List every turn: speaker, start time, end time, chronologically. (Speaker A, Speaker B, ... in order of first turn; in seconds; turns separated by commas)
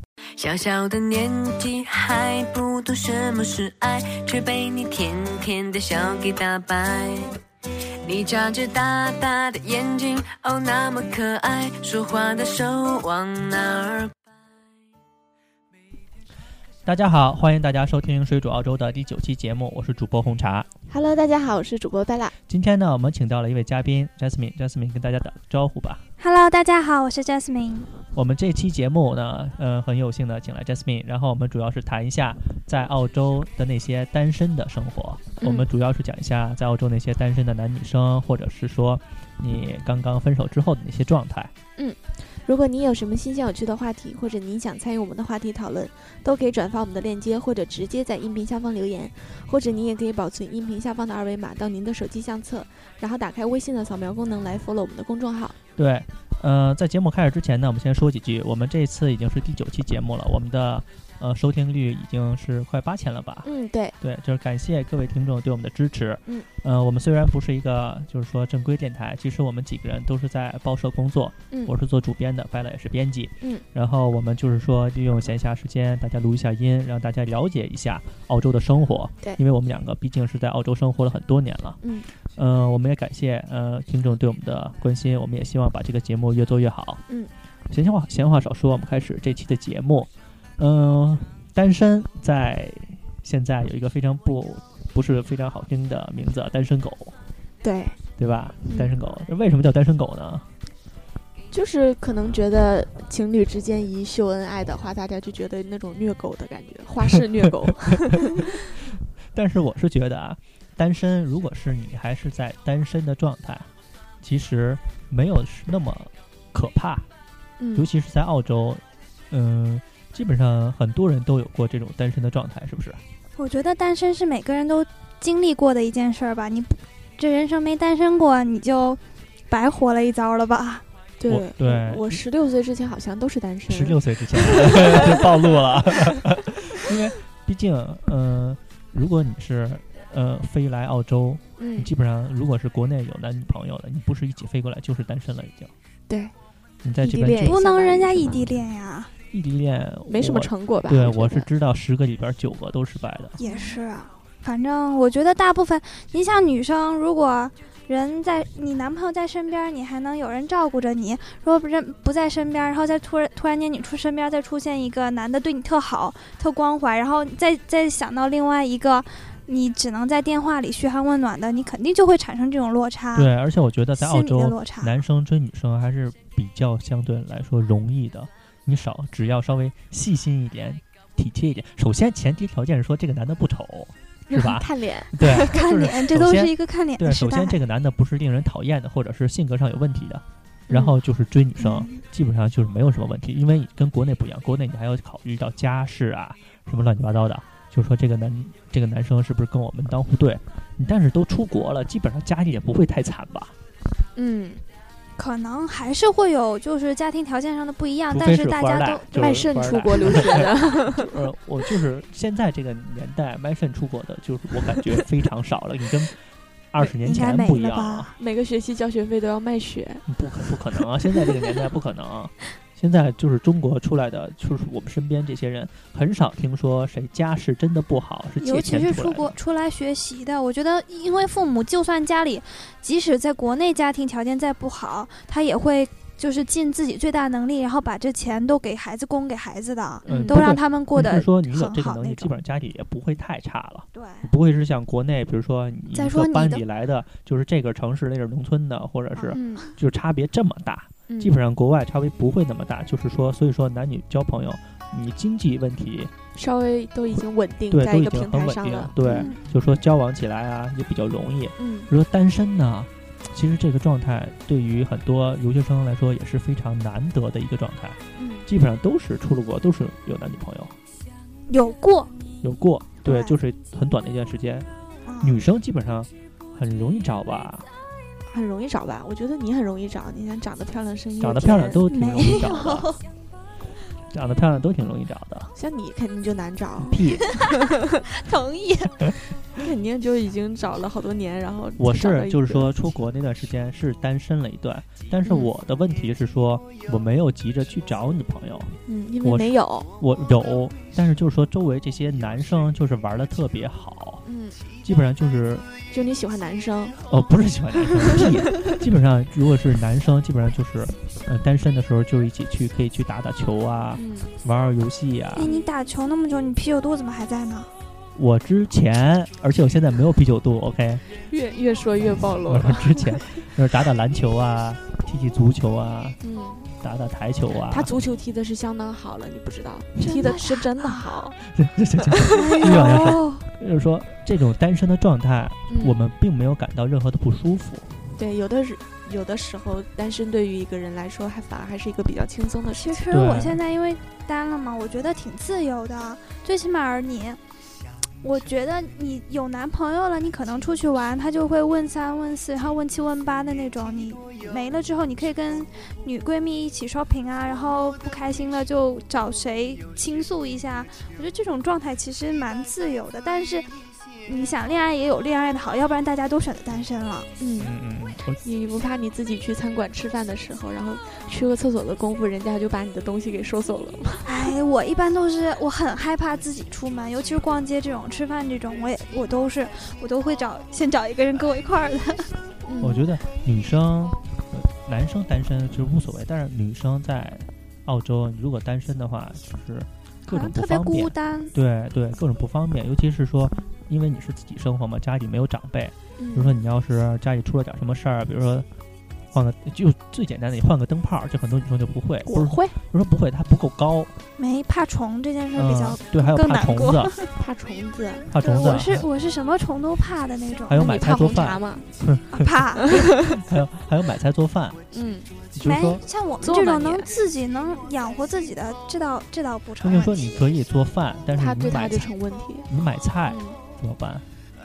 Speaker A: 0.4-7.3, Speaker A: 8.0-14.1, Speaker B: 16.9-20.7, Speaker C: 20.9-22.3, Speaker B: 22.5-26.0, Speaker D: 26.2-27.9, Speaker B: 28.1-41.5, Speaker C: 35.4-35.7, Speaker C: 41.8-55.6, Speaker B: 55.8-63.5, Speaker C: 63.4-64.0, Speaker B: 64.0-87.0, Speaker C: 81.8-82.1, Speaker B: 87.7-97.2, Speaker C: 97.6-98.0, Speaker B: 98.2-100.5, Speaker C: 98.7-98.9, Speaker C: 101.5-108.5, Speaker B: 107.9-113.7, Speaker B: 114.2-117.1, Speaker C: 117.6-117.9, Speaker B: 117.7-123.0, Speaker D: 123.3-130.8, Speaker C: 131.2-136.2, Speaker B: 131.3-132.2, Speaker B: 133.7-145.7, Speaker C: 141.6-141.9, Speaker B: 146.8-147.6, Speaker C: 147.0-148.5, Speaker D: 147.4-149.1, Speaker B: 149.3-153.3, Speaker C: 150.1-151.5, Speaker D: 153.4-173.3, Speaker C: 153.4-153.8, Speaker B: 173.1-203.5, Speaker D: 173.9-174.9, Speaker C: 184.3-185.1, Speaker D: 185.2-187.6, Speaker C: 190.7-190.9, Speaker D: 191.6-192.0, Speaker C: 204.2-204.6, Speaker D: 205.2-209.3, Speaker B: 208.1-216.1, Speaker C: 209.2-211.1, Speaker B: 216.7-218.1, Speaker D: 217.0-218.1, Speaker C: 218.2-220.1, Speaker B: 220.1-229.3, Speaker D: 228.4-242.3, Speaker B: 240.0-256.1, Speaker C: 240.1-240.4, Speaker D: 243.9-244.3, Speaker D: 245.9-246.6, Speaker D: 249.1-249.7, Speaker C: 249.3-249.7, Speaker C: 251.1-251.4, Speaker C: 256.3-259.3, Speaker B: 257.1-270.8, Speaker D: 259.0-259.4, Speaker C: 261.6-261.9, Speaker C: 268.2-268.5, Speaker D: 271.5-272.1, Speaker B: 272.4-274.7, Speaker D: 273.0-273.4, Speaker D: 275.1-275.4, Speaker B: 275.2-277.6, Speaker C: 278.3-281.8, Speaker B: 281.2-282.9, Speaker D: 281.9-283.0, Speaker B: 284.0-285.5, Speaker C: 285.6-287.0, Speaker B: 286.8-287.3, Speaker D: 288.0-289.1, Speaker C: 289.5-292.7, Speaker B: 291.8-304.2, Speaker C: 295.2-295.5, Speaker C: 298.9-299.9, Speaker C: 304.2-304.6, Speaker B: 304.8-305.6, Speaker C: 305.9-307.0, Speaker B: 307.1-315.5, Speaker C: 313.9-314.3, Speaker D: 315.3-317.7, Speaker B: 318.1-321.0, Speaker C: 321.2-323.2, Speaker B: 322.4-326.2, Speaker C: 326.2-326.7, Speaker B: 326.8-328.1, Speaker C: 327.7-331.4, Speaker D: 330.0-331.1, Speaker B: 331.4-337.9, Speaker C: 332.1-333.2, Speaker D: 332.3-333.4, Speaker C: 335.7-336.0, Speaker C: 338.2-343.1, Speaker D: 342.7-347.4, Speaker B: 343.1-343.6, Speaker D: 348.2-363.7, Speaker D: 364.2-367.3, Speaker C: 367.4-367.7, Speaker B: 367.6-368.4, Speaker C: 368.4-374.5, Speaker D: 374.2-382.4, Speaker C: 382.7-383.1, Speaker B: 382.8-398.7, Speaker D: 390.3-391.5, Speaker C: 396.2-396.5, Speaker B: 399.3-404.1, Speaker C: 402.2-402.7, Speaker D: 404.4-407.3, Speaker B: 405.6-407.1, Speaker C: 407.3-408.3, Speaker B: 408.3-409.1, Speaker D: 408.4-411.0, Speaker B: 410.7-414.8, Speaker C: 410.7-411.9, Speaker D: 412.3-412.9, Speaker C: 412.8-413.2, Speaker C: 414.9-415.3, Speaker B: 415.5-416.0, Speaker D: 415.6-420.4, Speaker C: 416.4-417.1, Speaker B: 419.8-422.1, Speaker C: 421.3-422.7, Speaker B: 422.7-424.2, Speaker C: 423.2-423.6